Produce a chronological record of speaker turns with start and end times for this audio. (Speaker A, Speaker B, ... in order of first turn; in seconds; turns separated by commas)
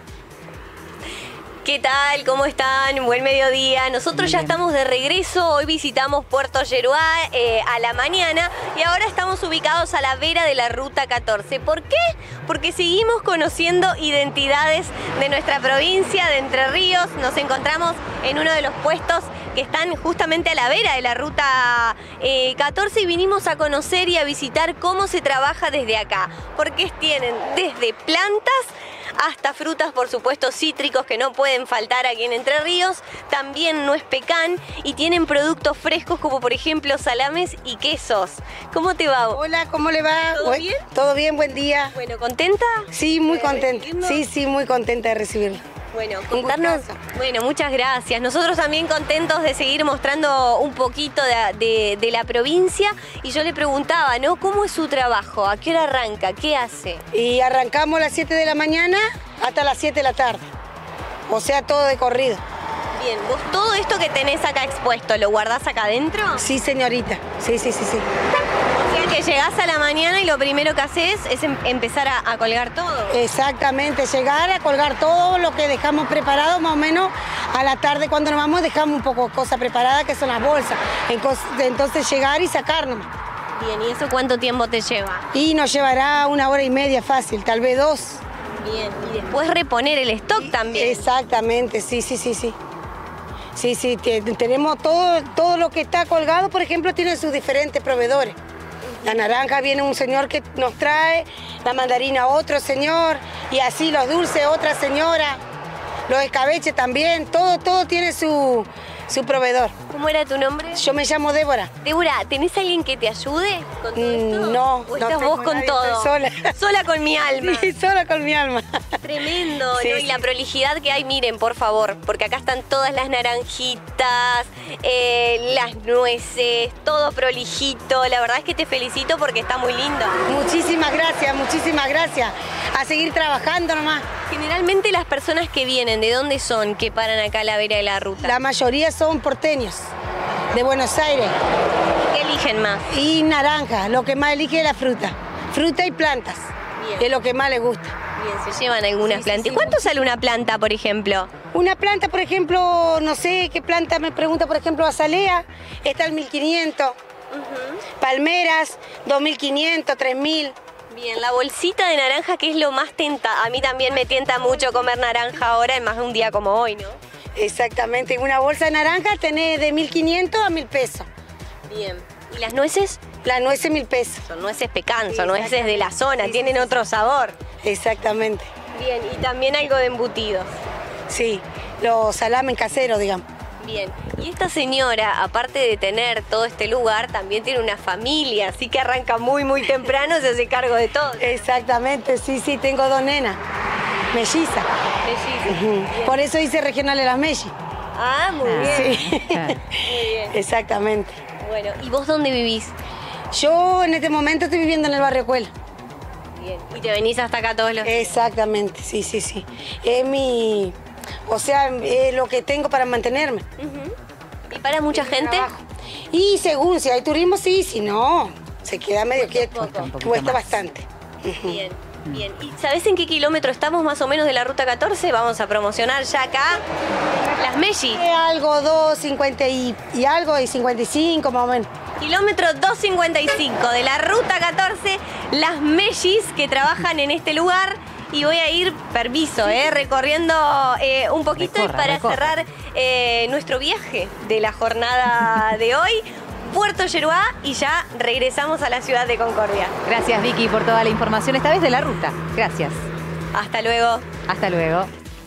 Speaker A: 1.6-39.4, Speaker B: 4.1-4.5, Speaker C: 39.3-42.0, Speaker A: 40.1-40.8, Speaker A: 41.9-44.2, Speaker C: 42.9-45.6, Speaker A: 45.9-57.0, Speaker C: 46.3-47.0, Speaker C: 57.1-60.5, Speaker C: 61.3-62.4, Speaker A: 62.9-66.5, Speaker C: 66.3-68.0, Speaker A: 68.8-73.2, Speaker C: 73.1-83.1, Speaker A: 83.5-85.2, Speaker C: 85.3-88.2, Speaker A: 88.6-91.1, Speaker C: 90.4-92.5, Speaker C: 93.5-98.4, Speaker A: 98.9-99.2, Speaker C: 99.0-105.4, Speaker C: 106.1-109.7, Speaker A: 109.9-110.8, Speaker C: 110.7-111.7, Speaker A: 111.8-117.7, Speaker C: 113.9-116.5, Speaker C: 117.4-118.8, Speaker A: 119.0-130.3, Speaker C: 119.7-120.2, Speaker C: 130.3-134.1, Speaker A: 134.3-138.3, Speaker C: 138.2-139.9, Speaker C: 140.5-141.3, Speaker A: 141.9-142.9, Speaker C: 142.9-147.9, Speaker A: 146.8-147.1, Speaker A: 148.2-151.3, Speaker C: 149.0-149.9, Speaker C: 151.5-156.9, Speaker A: 157.3-157.8, Speaker C: 158.0-160.5, Speaker A: 160.9-167.0, Speaker C: 167.3-171.1, Speaker A: 171.7-173.0, Speaker C: 173.2-174.2, Speaker A: 174.2-177.4, Speaker C: 175.1-176.8, Speaker C: 177.6-178.5, Speaker A: 178.7-180.5, Speaker C: 181.1-183.2, Speaker A: 183.6-191.3, Speaker C: 191.2-193.4, Speaker C: 194.1-194.7, Speaker A: 195.0-196.2, Speaker C: 195.4-197.5, Speaker A: 197.9-199.0, Speaker B: 198.4-199.6, Speaker C: 198.5-201.2, Speaker A: 199.8-200.3, Speaker A: 201.4-202.7, Speaker C: 203.3-205.5, Speaker A: 206.3-208.1, Speaker C: 207.8-210.8, Speaker C: 211.3-213.4, Speaker A: 213.6-213.9, Speaker A: 214.5-215.5, Speaker C: 214.9-221.6, Speaker A: 219.2-219.9, Speaker B: 219.6-220.6, Speaker A: 221.4-226.6, Speaker A: 227.4-228.0, Speaker C: 227.9-231.7, Speaker A: 232.0-249.8, Speaker B: 241.4-242.3, Speaker B: 249.8-252.8, Speaker A: 253.3-254.1, Speaker B: 254.3-254.9